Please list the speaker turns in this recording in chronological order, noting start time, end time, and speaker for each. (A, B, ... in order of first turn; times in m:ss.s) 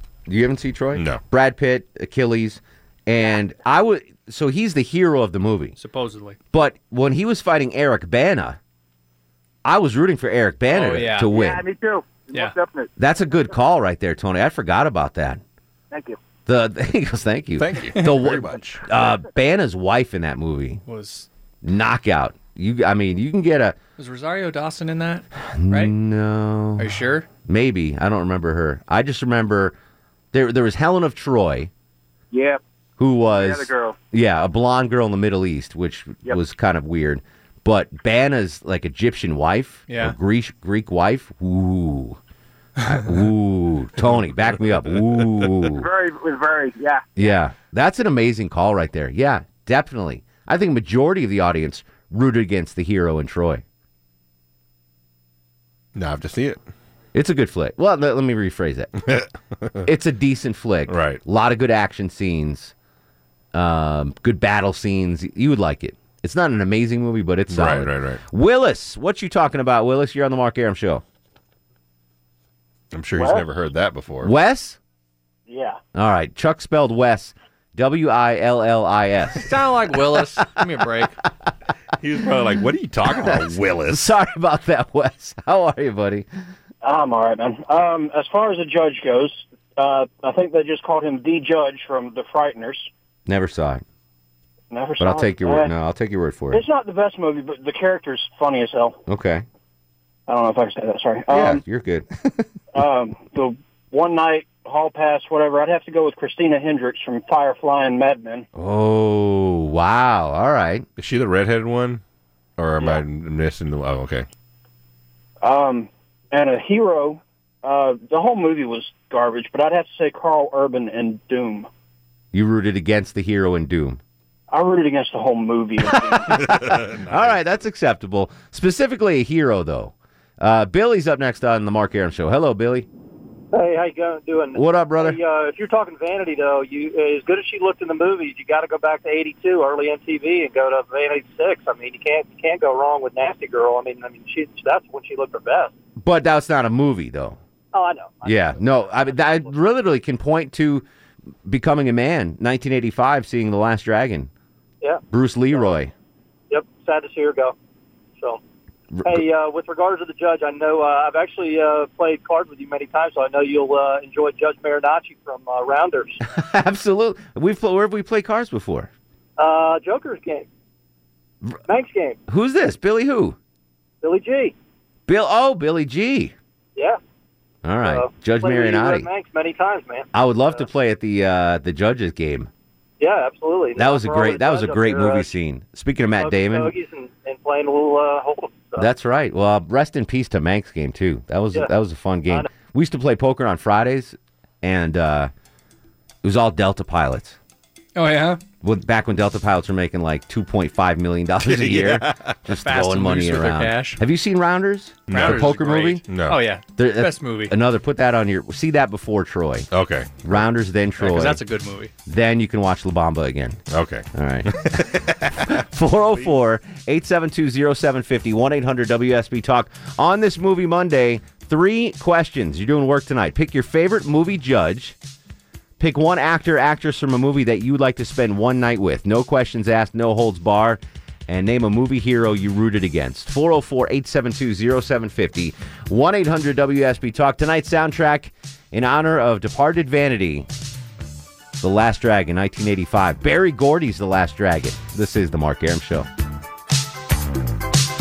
0:00.3-0:05.8 A
0:01.0-0:01.2 B
0:05.8-0:06.4 C
0:06.5-0:08.6 A
0:09.6-0:11.6 A
0:10.7-0:11.3 C
0:11.3-0:12.9 D
0:13.0-0:15.4 A
0:15.9-0:16.2 D
0:16.5-0:20.8 A
0:17.6-0:18.9 B
0:20.9-0:21.3 C
0:21.6-0:23.8 A
0:24.0-0:25.9 C
0:25.5-0:26.9 A
0:26.8-0:27.3 C
0:27.5-0:29.8 A
0:30.3-0:31.7 A
0:32.3-0:32.6 D
0:33.0-0:42.2 A
0:33.3-0:34.0 D
0:39.9-0:40.2 C
0:42.8-0:45.9 A
0:45.7-0:47.1 D
0:47.2-0:53.6 A
0:56.0-0:56.6 B
0:57.1-0:58.9 A
0:59.0-0:59.9 B
0:59.8-1:02.7 A
1:00.9-1:01.2 B
1:03.5-1:11.0 A
1:07.5-1:08.2 B
1:12.9-1:14.3 B
1:14.2-1:14.8 A
1:15.5-1:15.8 D
1:15.9-1:19.6 A
1:19.4-1:21.2 C
1:22.0-1:24.1 B
1:23.2-1:26.3 A
1:26.8-1:32.9 D
1:33.3-1:33.8 A
1:34.7-1:35.7 D
1:35.0-1:36.6 A
1:36.5-1:39.0 D
1:39.1-1:39.4 A
1:40.3-1:41.6 D
1:41.3-1:42.5 A
1:42.7-1:48.5 D
1:48.6-1:50.9 A
1:51.0-1:52.0 B
1:52.6-1:54.3 B
1:55.4-2:01.7 D
2:02.3-2:04.0 A
2:04.5-2:06.5 D
2:06.2-2:12.9 A
2:06.3-2:07.4 B
2:13.5-2:25.7 E
2:14.6-2:15.2 A
2:26.0-2:27.4 A
2:27.7-2:29.6 E
2:28.2-2:30.9 A
2:31.5-2:34.3 A
2:34.8-2:35.8 E
2:35.1-2:35.9 A
2:36.5-2:37.6 E
2:38.9-2:39.2 A
2:39.0-2:46.2 E
2:46.3-2:48.9 A
2:49.4-2:50.5 E
2:51.7-2:52.2 E
2:52.3-2:53.4 A
2:54.0-2:54.5 E
2:55.1-2:56.3 A
2:57.6-2:59.1 A
2:57.8-3:00.6 E
3:00.1-3:02.5 A
3:03.0-3:05.3 E
3:03.8-3:06.7 A
3:06.2-3:08.9 E
3:08.8-3:15.3 A
3:16.2-3:17.4 A
3:18.0-3:18.4 C
3:18.6-3:26.0 A
3:21.4-3:22.4 B
3:22.6-3:24.0 C
3:25.1-3:25.5 B
3:25.1-3:27.6 C
3:26.1-3:26.4 B
3:26.8-3:29.7 A
3:29.7-3:30.1 B
3:30.2-3:31.4 A
3:31.0-3:31.9 C
3:32.1-3:33.6 A
3:33.7-3:35.6 B
3:34.1-3:34.6 A
3:35.5-3:45.0 A
3:45.8-4:00.5 A
4:01.6-4:06.1 A